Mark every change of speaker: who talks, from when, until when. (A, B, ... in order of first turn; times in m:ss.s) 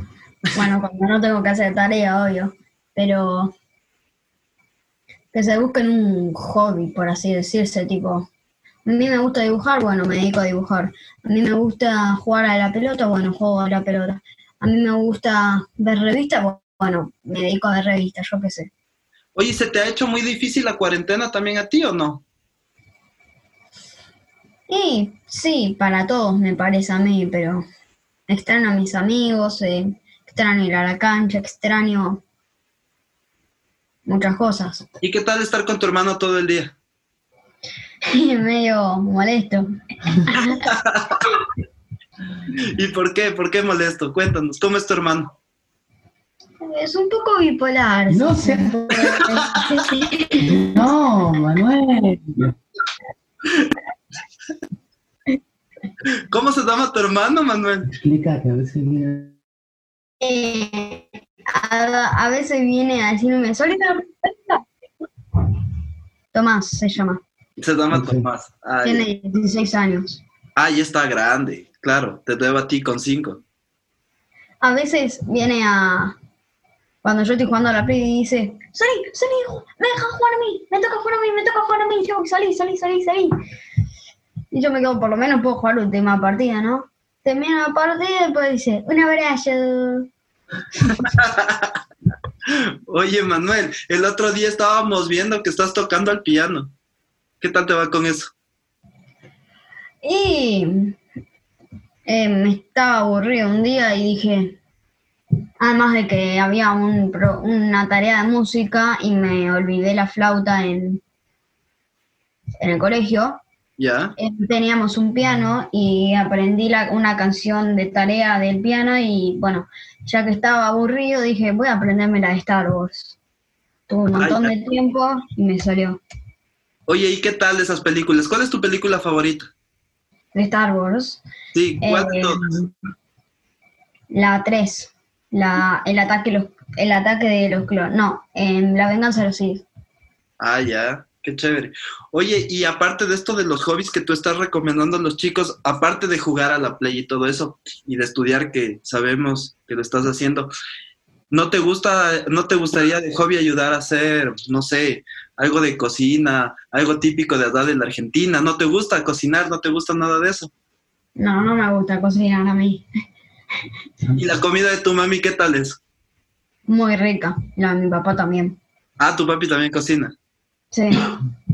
0:00.5-0:03.5 A
0:05.3-0:08.3 A
0:08.8-0:18.7 A
0:19.4-0:22.2 B
0:24.7-0:27.6 A
0:28.3-0:32.2 A
0:34.1-0:34.9 A
0:35.0-0:36.8 B
0:38.1-0:40.6 A
0:40.7-0:41.2 B
0:42.8-0:45.3 B
0:46.6-0:50.6 A
0:48.1-0:48.8 C
0:50.4-0:52.5 C
0:56.3-0:57.9 B
0:57.9-0:59.3 C
1:00.2-1:04.6 A
1:06.3-1:07.2 A
1:07.6-1:09.0 B
1:07.9-1:08.3 C
1:08.8-1:10.2 A
1:10.6-1:13.4 B
1:14.6-1:16.2 A
1:17.0-1:23.3 A
1:24.5-1:30.1 A
1:31.0-1:31.7 B
1:32.9-1:36.7 B
1:37.4-1:38.3 B
1:40.0-1:41.0 A
1:42.1-1:44.6 A
1:45.6-1:51.0 A
1:52.6-1:53.4 A
1:53.8-1:54.2 B
1:54.2-2:03.2 A
2:03.9-2:06.0 A
2:04.2-2:04.5 B
2:06.9-2:09.5 B
2:10.3-2:11.2 A
2:11.5-2:12.4 B
2:11.8-2:12.7 A
2:14.1-2:19.6 A
2:20.4-2:30.5 B
2:31.3-2:40.5 B
2:41.2-2:42.8 A
2:44.2-2:45.8 B
2:46.7-2:48.6 A
2:49.0-2:50.1 B
2:50.7-2:51.2 A